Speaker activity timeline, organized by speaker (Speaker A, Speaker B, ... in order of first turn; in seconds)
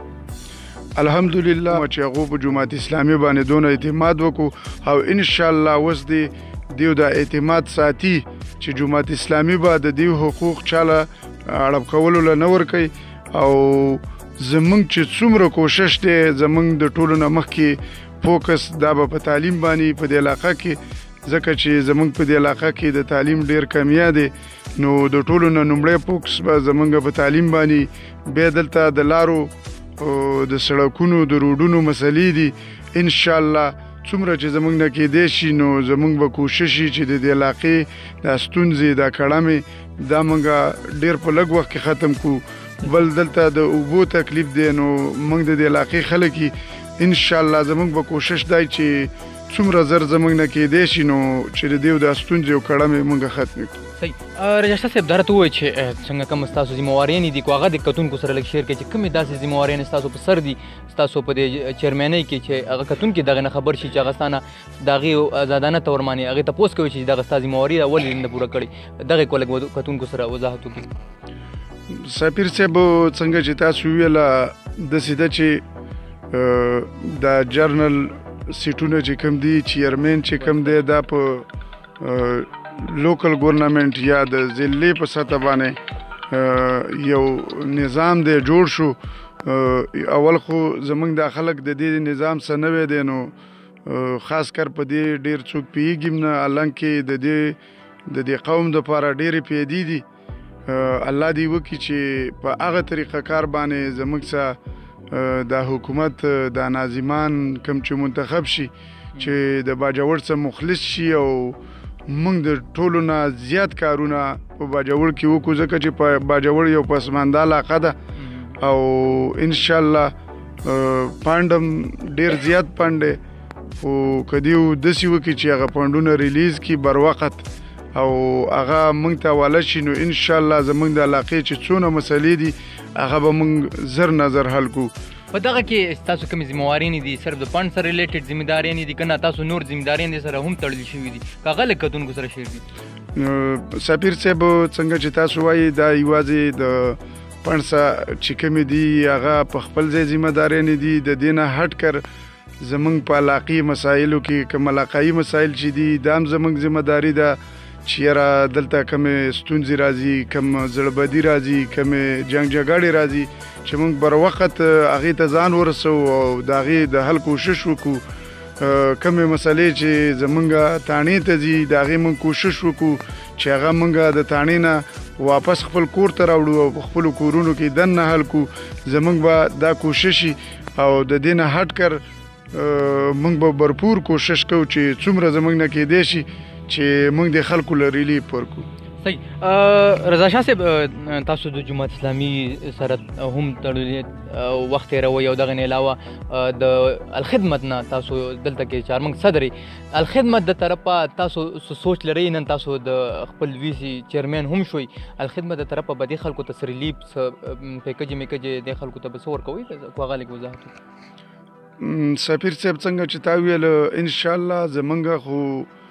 Speaker A: 1.0-53.8, 71.9-75.6, 76.3-81.5, 82.0-85.8, 86.3-100.0, 100.7-104.6, 105.1-118.0, 118.6-123.2, 123.8-134.9, 143.2-152.0, 152.6-168.0, 168.6-188.7, 211.8-215.7
Speaker B: 54.0-70.9, 118.2-118.6, 135.3-142.6, 189.0-210.7